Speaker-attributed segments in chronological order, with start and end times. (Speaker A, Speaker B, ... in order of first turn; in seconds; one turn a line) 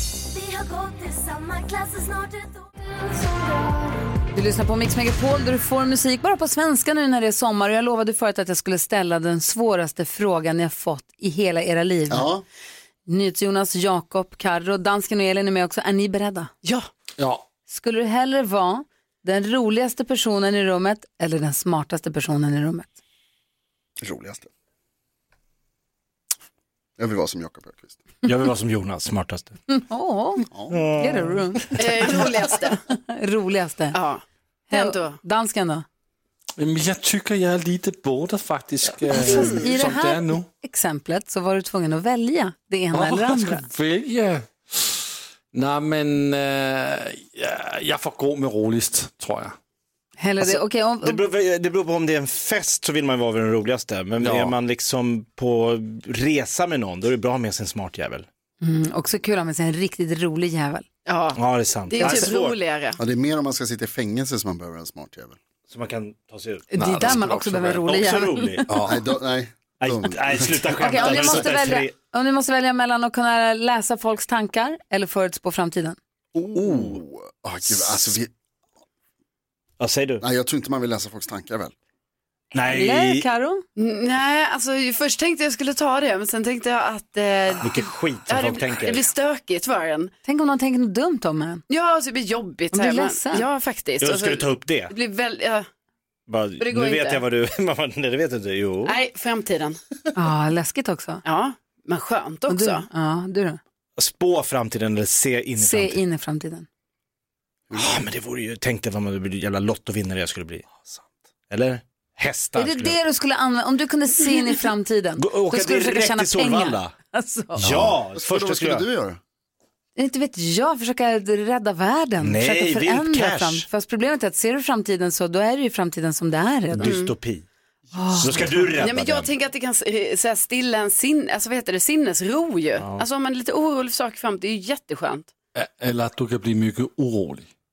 Speaker A: 0.2-4.1
Speaker B: 4.3-12.3
Speaker C: 12.1-12.4
Speaker B: 13.1-16.5
Speaker D: 16.6-16.9
Speaker E: 17.2-17.4
Speaker B: 17.7-23.0
Speaker C: 24.0-24.5
Speaker C: 27.0-28.0
Speaker F: 28.2-29.6
Speaker B: 29.7-31.8
Speaker C: 30.5-30.8
Speaker F: 30.7-31.6
Speaker D: 31.8-32.8
Speaker B: 32.9-34.0
Speaker D: 33.9-35.2
Speaker B: 34.7-35.9
Speaker E: 36.6-40.5
Speaker B: 39.1-43.6
Speaker D: 39.2-39.7
Speaker E: 42.9-44.9
Speaker E: 45.5-49.5
Speaker B: 50.2-51.2
Speaker F: 50.4-58.3
Speaker E: 54.2-54.5
Speaker B: 58.6-60.9
Speaker D: 61.0-63.0
Speaker F: 61.3-62.6
Speaker B: 62.0-62.3
Speaker C: 63.0-65.4
Speaker F: 65.7-67.2
Speaker B: 66.7-68.7
Speaker E: 66.7-67.8
Speaker F: 67.8-68.7
Speaker E: 68.7-69.0
Speaker C: 68.8-71.4
Speaker F: 69.8-71.9
Speaker B: 70.8-76.0
Speaker C: 76.3-78.3
Speaker F: 76.6-76.9
Speaker F: 79.8-80.2
Speaker C: 80.2-81.7
Speaker F: 82.5-83.2
Speaker B: 82.6-83.6
Speaker D: 83.8-90.1
Speaker F: 87.6-89.0
Speaker B: 90.2-91.6
Speaker D: 91.7-95.7
Speaker B: 92.7-93.5
Speaker F: 94.0-94.9
Speaker F: 96.3-98.9
Speaker D: 96.6-97.2
Speaker D: 98.8-99.8
Speaker B: 100.1-101.2
Speaker D: 101.2-102.9
Speaker B: 102.5-103.6
Speaker F: 104.0-106.0
Speaker B: 105.6-106.7
Speaker C: 107.7-108.0
Speaker F: 107.7-110.7
Speaker F: 111.5-113.0
Speaker B: 112.5-117.6
Speaker F: 115.2-116.9
Speaker F: 117.6-118.8
Speaker C: 117.6-119.2
Speaker B: 120.0-126.9
Speaker F: 122.2-123.7
Speaker F: 126.7-127.4
Speaker D: 126.8-127.1
Speaker B: 127.9-128.7
Speaker F: 128.2-129.3
Speaker D: 128.8-135.3
Speaker E: 135.6-137.5